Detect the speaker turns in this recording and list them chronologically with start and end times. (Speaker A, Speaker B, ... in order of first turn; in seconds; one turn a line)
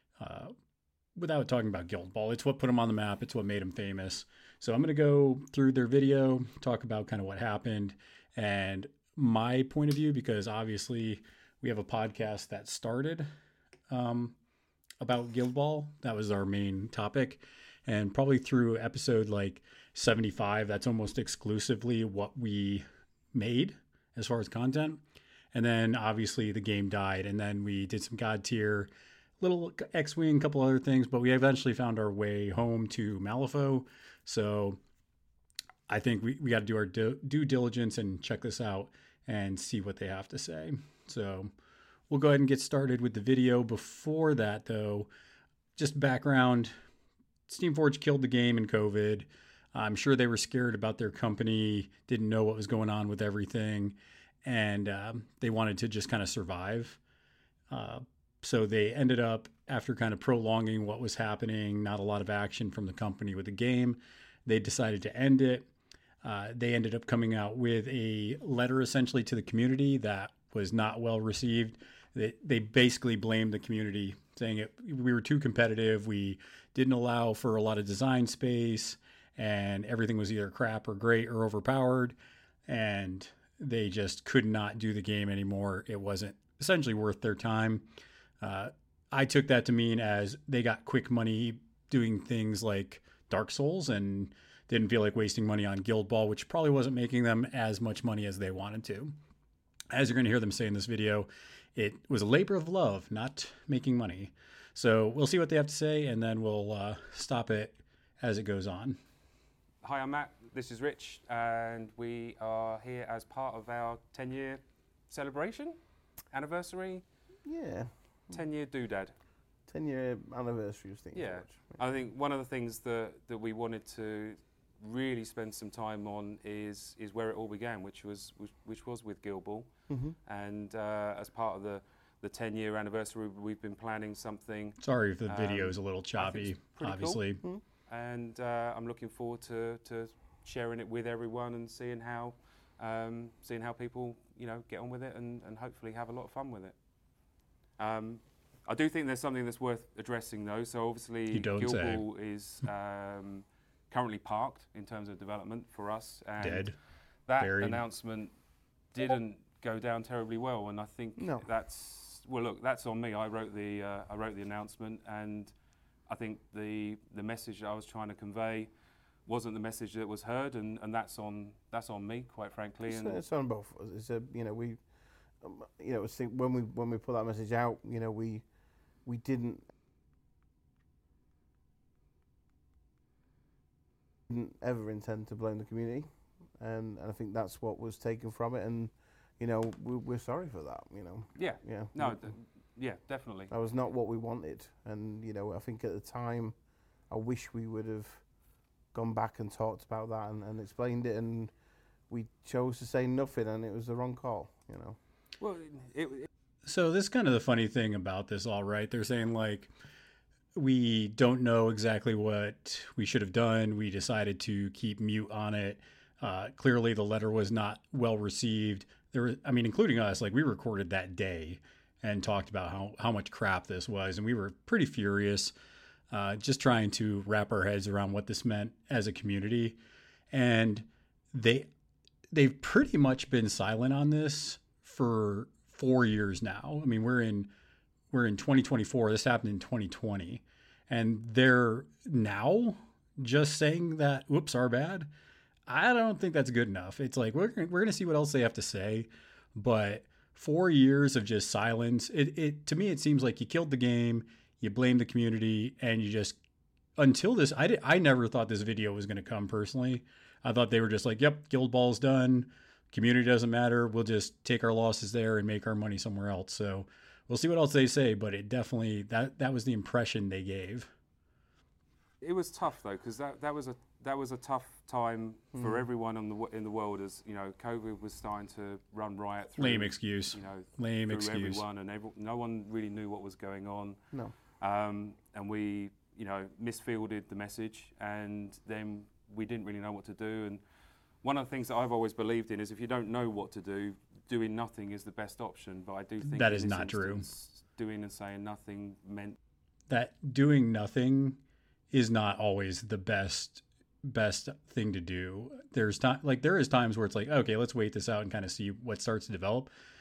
Speaker A: 0.2-0.5
Speaker A: 1.2-13.3
Speaker A: 13.9-14.4
Speaker A: 15.0-25.0
Speaker A: 25.5-34.8
Speaker A: 35.9-41.5
Speaker A: 42.1-45.1
Speaker A: 45.8-46.7
Speaker A: 47.5-57.0
Speaker A: 57.7-65.7
Speaker A: 66.2-82.2
Speaker A: 82.7-87.9
Speaker A: 88.4-99.2
Speaker A: 99.9-109.0
Speaker B: 109.8-115.8
Speaker B: 116.3-117.0
Speaker C: 117.4-118.4
Speaker B: 118.3-119.1
Speaker C: 119.7-121.8
Speaker B: 121.1-129.7
Speaker C: 129.9-130.2
Speaker B: 130.2-137.2
Speaker A: 134.8-137.4
Speaker B: 137.9-146.8
Speaker B: 147.8-156.7
Speaker A: 151.3-152.0
Speaker A: 156.4-156.8
Speaker B: 157.2-158.3
Speaker A: 157.4-157.8
Speaker B: 158.9-165.5
Speaker C: 161.2-161.5
Speaker B: 166.1-168.7
Speaker B: 169.2-173.2
Speaker C: 172.8-174.8
Speaker C: 175.4-178.4
Speaker C: 179.1-179.7
Speaker C: 184.3-192.3
Speaker B: 191.4-193.5
Speaker C: 193.5-196.6
Speaker C: 197.1-198.2
Speaker C: 198.9-201.5
Speaker C: 202.1-205.0
Speaker B: 205.4-206.3
Speaker A: 206.7-209.7
Speaker A: 210.6-225.5
Speaker A: 226.1-229.8
Speaker A: 230.3-231.7
Speaker A: 232.3-237.5
Speaker A: 238.1-245.1
Speaker A: 245.7-256.4
Speaker A: 257.0-270.9
Speaker B: 272.2-284.0
Speaker C: 275.6-275.9
Speaker A: 279.6-281.6
Speaker B: 284.6-290.6
Speaker B: 291.2-299.4
Speaker A: 296.2-297.2
Speaker A: 299.9-301.4
Speaker A: 301.9-309.7